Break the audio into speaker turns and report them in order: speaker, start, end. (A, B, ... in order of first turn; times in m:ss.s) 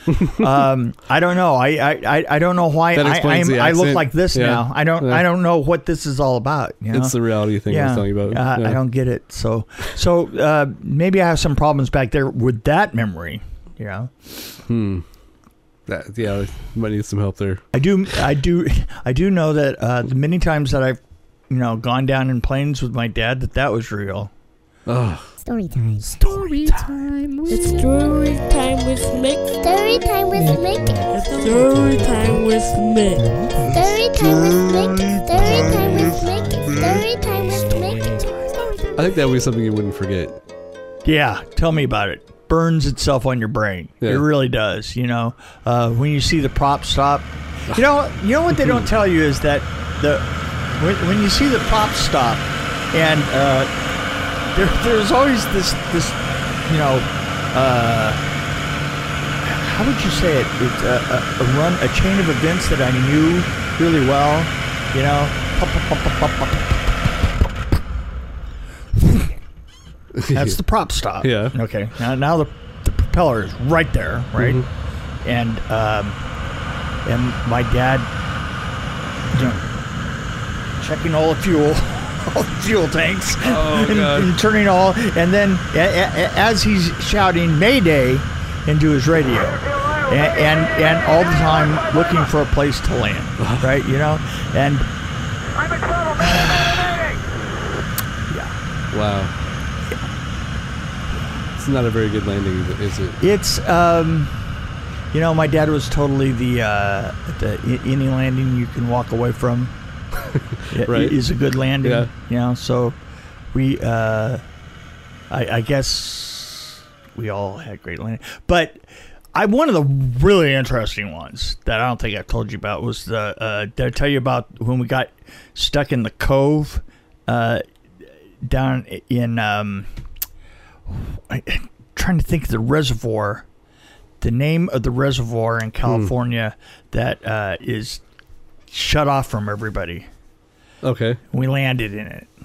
0:00.2-0:14.4 A
0:02.9-0:05.2 B
0:06.9-0:08.8 B
0:14.7-0:15.0 B
0:15.9-0:17.6 B
0:17.7-0:21.0 A
0:21.5-0:24.3 A
0:24.9-0:25.3 B
0:25.4-0:26.8 C
0:26.3-0:28.0 D
0:27.5-0:30.0 E
0:27.5-0:27.9 C
0:29.6-0:31.0 C
0:30.4-0:32.3 D
0:31.1-0:33.3 E
0:33.2-0:33.8 D
0:33.7-0:39.0 C
0:35.4-0:36.8 D
0:39.0-0:40.4 B
0:41.0-0:53.7 A
0:54.5-0:58.2 A
0:59.4-1:06.8 A
1:09.0-1:09.3 A
1:10.2-1:10.6 B
1:10.3-1:14.6 A
1:11.2-1:11.6 B
1:14.4-1:14.6 B
1:15.2-1:16.2 A
1:17.0-1:18.1 A
1:19.3-1:19.6 A
1:20.8-1:34.9 A
1:23.4-1:24.3 B
1:33.4-1:33.7 B
1:36.2-1:37.1 A
1:38.9-1:39.3 B
1:41.6-1:43.2 B
1:43.2-1:44.3 A
1:45.1-1:49.7 A
1:50.7-1:53.0 A
1:50.8-1:51.2 B
1:51.8-1:52.1 B
1:53.5-1:54.4 A
1:55.3-1:58.8 A
1:59.4-2:07.6 A
2:08.4-2:09.9 A
2:10.9-2:13.4 A
2:14.2-2:18.0 A
2:15.9-2:16.1 B
2:18.7-2:20.1 A
2:20.8-2:21.2 B
2:21.3-2:22.3 A